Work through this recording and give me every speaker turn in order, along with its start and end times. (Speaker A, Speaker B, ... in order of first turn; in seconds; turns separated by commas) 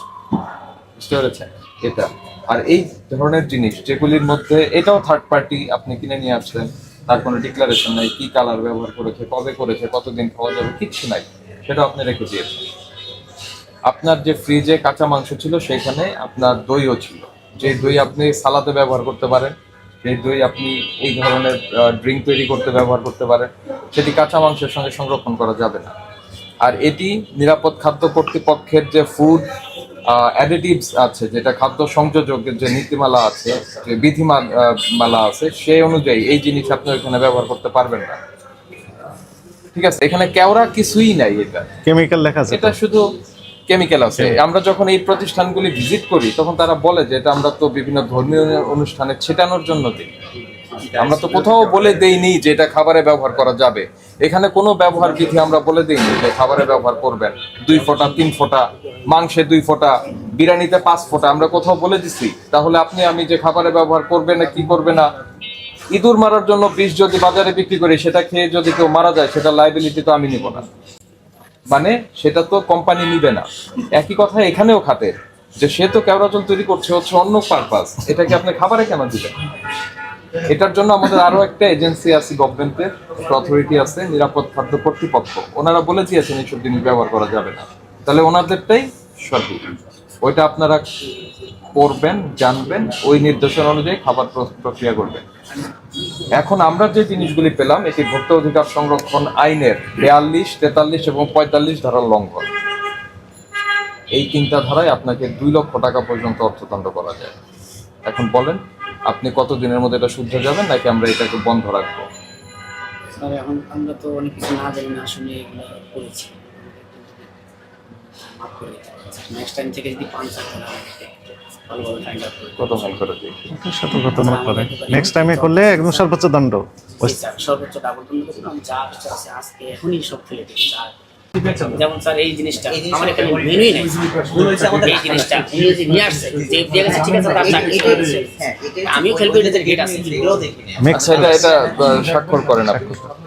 Speaker A: 1.0-12.7, Speaker A: 13.9-25.9, Speaker A: 26.6-29.5, Speaker A: 30.1-38.2, Speaker A: 39.7-41.7, Speaker B: 41.9-42.8, Speaker A: 42.5-43.1, Speaker A: 43.7-50.1, Speaker C: 50.8-52.0, Speaker A: 51.0-65.1, Speaker A: 65.9-70.7, Speaker A: 71.7-79.3, Speaker A: 80.5-90.9, Speaker A: 91.7-95.2, Speaker A: 96.3-102.5, Speaker A: 104.1-107.3, Speaker A: 108.0-112.1, Speaker D: 113.2-117.3, Speaker D: 118.4-123.0, Speaker A: 122.6-123.5, Speaker B: 123.5-127.2, Speaker D: 124.2-126.1, Speaker D: 127.0-130.9, Speaker D: 131.6-134.1, Speaker C: 132.5-135.5, Speaker D: 134.8-138.3, Speaker C: 137.3-141.9, Speaker D: 138.9-140.3, Speaker B: 140.8-141.5, Speaker A: 140.9-143.0